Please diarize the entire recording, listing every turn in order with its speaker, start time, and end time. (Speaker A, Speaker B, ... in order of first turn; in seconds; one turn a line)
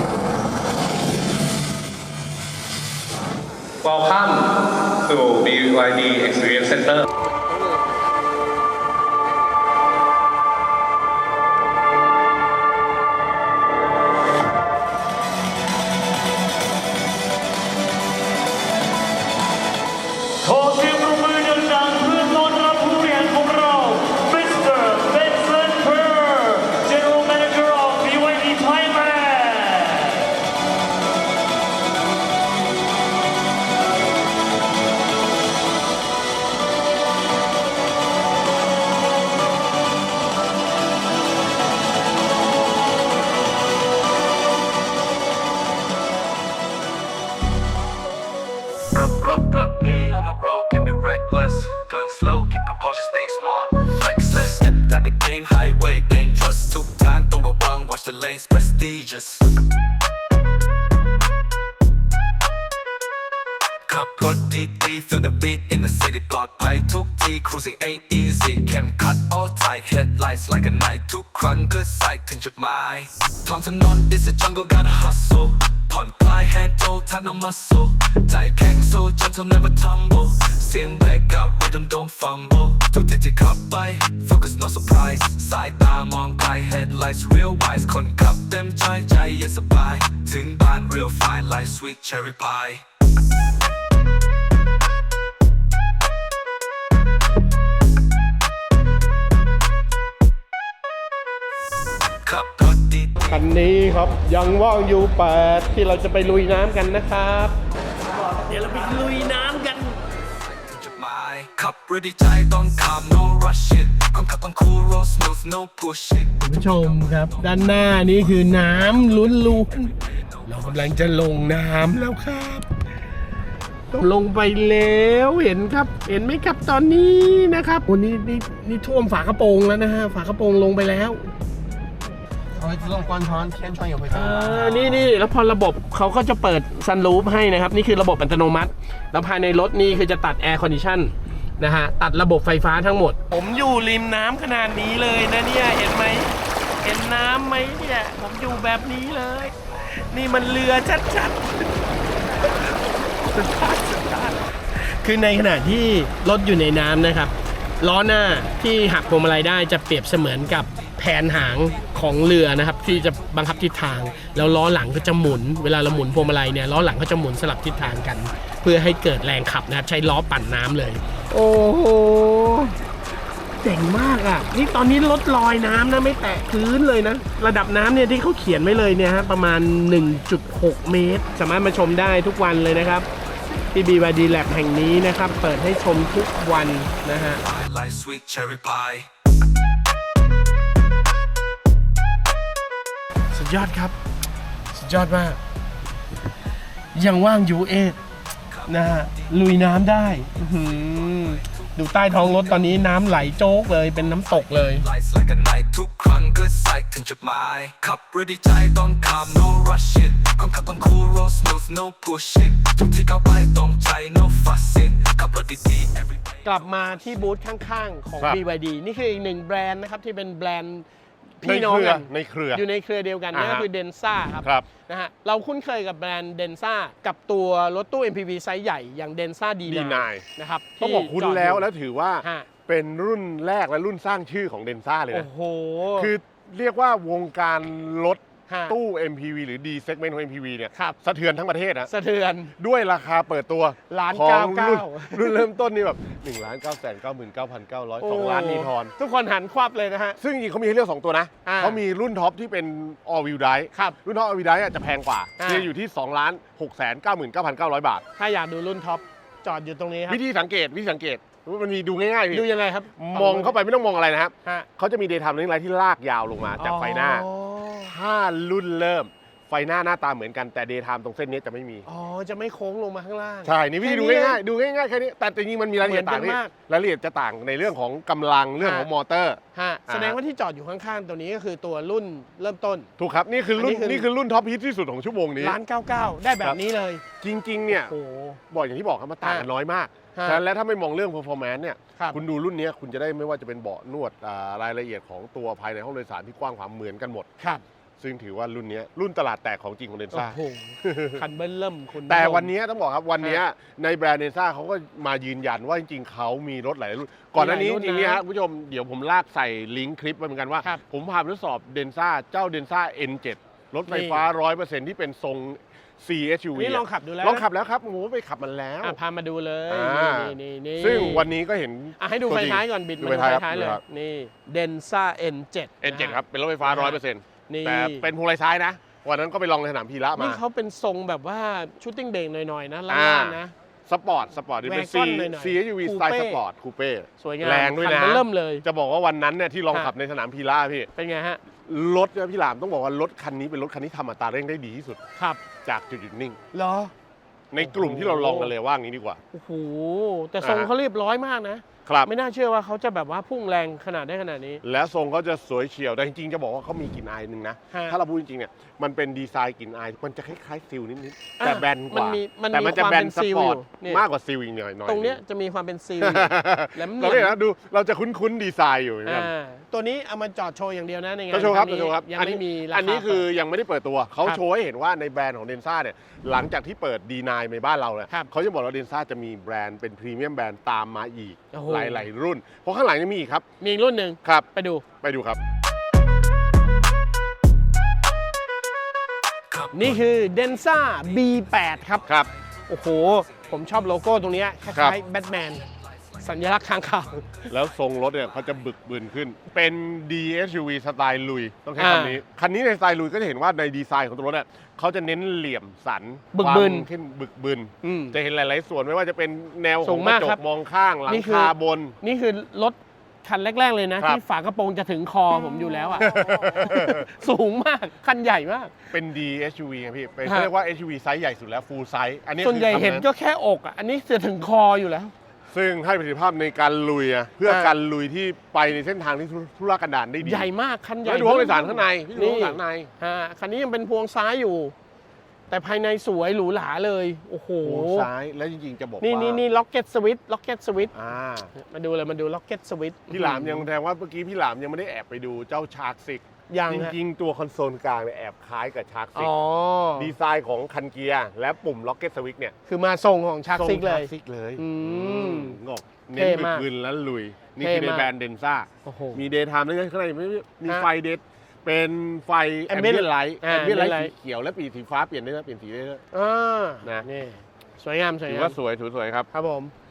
Speaker A: 3.8-7.0
Speaker B: 20.6-29.6
Speaker B: 48.9-59.5
Speaker B: 63.8-92.8
Speaker B: 102.2-103.4
Speaker C: 103.3-107.5
Speaker C: 108.3-110.0
Speaker B: 110.5-120.9
Speaker C: 116.4-119.9
Speaker C: 120.5-122.7
Speaker C: 123.9-131.3
Speaker D: 132.6-135.1
Speaker C: 134.1-151.6
Speaker C: 153.3-172.8
Speaker C: 173.6-183.1
Speaker C: 183.7-187.4
Speaker B: 187.3-189.1
Speaker C: 193.3-193.9
Speaker C: 194.7-195.4
Speaker C: 196.9-198.0
Speaker B: 198.5-199.3
Speaker C: 198.7-204.8
Speaker B: 200.6-202.6
Speaker B: 204.6-217.0
Speaker C: 216.4-220.8
Speaker C: 221.4-231.7
Speaker E: 221.4-222.6
Speaker E: 223.3-223.7
Speaker E: 229.7-230.2
Speaker E: 230.8-235.3
Speaker C: 232.2-232.5
Speaker C: 235.1-236.1
Speaker E: 235.9-241.9
Speaker C: 238.5-238.8
Speaker C: 241.9-242.5
Speaker E: 242.6-248.9
Speaker C: 243.9-245.4
Speaker C: 248.0-250.2
Speaker E: 250.2-258.0
Speaker C: 251.4-251.8
Speaker C: 253.7-254.0
Speaker C: 255.4-255.7
Speaker C: 258.2-260.2
Speaker E: 260.1-267.2
Speaker C: 262.3-263.6
Speaker C: 266.6-267.9
Speaker E: 267.9-271.8
Speaker C: 271.9-274.4
Speaker E: 273.4-280.2
Speaker C: 275.8-276.5
Speaker C: 278.6-278.9
Speaker C: 279.5-282.9
Speaker E: 283.0-285.6
Speaker C: 283.6-284.1
Speaker C: 285.4-287.0
Speaker E: 287.2-287.9
Speaker C: 287.7-288.4
Speaker E: 288.5-297.3
Speaker C: 289.2-289.5
Speaker C: 290.1-290.4
Speaker E: 298.0-301.2
Speaker C: 300.1-302.5
Speaker E: 302.1-319.0
Speaker C: 307.4-308.2
Speaker C: 313.9-314.2
Speaker C: 316.5-317.4
Speaker C: 318.8-321.3
Speaker E: 319.7-323.8
Speaker C: 322.0-328.1
Speaker E: 325.8-330.4
Speaker C: 330.1-333.5
Speaker E: 332.9-340.9
Speaker C: 334.6-336.4
Speaker C: 337.2-338.6
Speaker C: 340.9-341.4
Speaker E: 341.7-345.0
Speaker E: 345.6-346.4
Speaker C: 346.5-346.9
Speaker E: 347.5-349.2
Speaker C: 347.6-348.5
Speaker C: 349.3-354.6
Speaker E: 350.4-350.7
Speaker E: 351.9-352.1
Speaker E: 354.6-365.2
Speaker C: 357.7-358.0
Speaker C: 361.4-364.0
Speaker C: 364.9-367.4
Speaker E: 366.0-369.3
Speaker C: 369.1-373.2
Speaker E: 371.3-383.4
Speaker C: 381.5-382.1
Speaker C: 383.6-384.8
Speaker E: 385.0-385.4
Speaker B: 389.5-390.0
Speaker C: 389.7-392.1
Speaker C: 392.7-395.6
Speaker C: 396.2-397.4
Speaker E: 397.5-412.0
Speaker C: 401.8-402.2
Speaker C: 406.3-406.9
Speaker C: 407.8-408.2
Speaker C: 409.8-410.4
Speaker C: 411.1-418.7
Speaker E: 416.0-417.1
Speaker E: 418.9-423.1
Speaker C: 422.4-425.1
Speaker E: 425.5-430.5
Speaker C: 427.5-427.7
Speaker C: 430.2-434.7
Speaker E: 431.0-432.9
Speaker C: 435.5-438.1
Speaker E: 437.6-439.4
Speaker C: 439.0-440.9
Speaker E: 440.9-441.5
Speaker C: 441.5-443.7
Speaker E: 443.1-449.3
Speaker C: 446.5-446.9
Speaker C: 449.1-450.1
Speaker E: 449.9-452.5
Speaker C: 452.7-455.6
Speaker E: 453.5-466.0
Speaker C: 456.1-456.6
Speaker C: 457.6-458.1
Speaker C: 458.8-459.2
Speaker C: 462.7-464.1
Speaker C: 466.1-468.6
Speaker E: 468.2-469.3
Speaker C: 469.3-469.7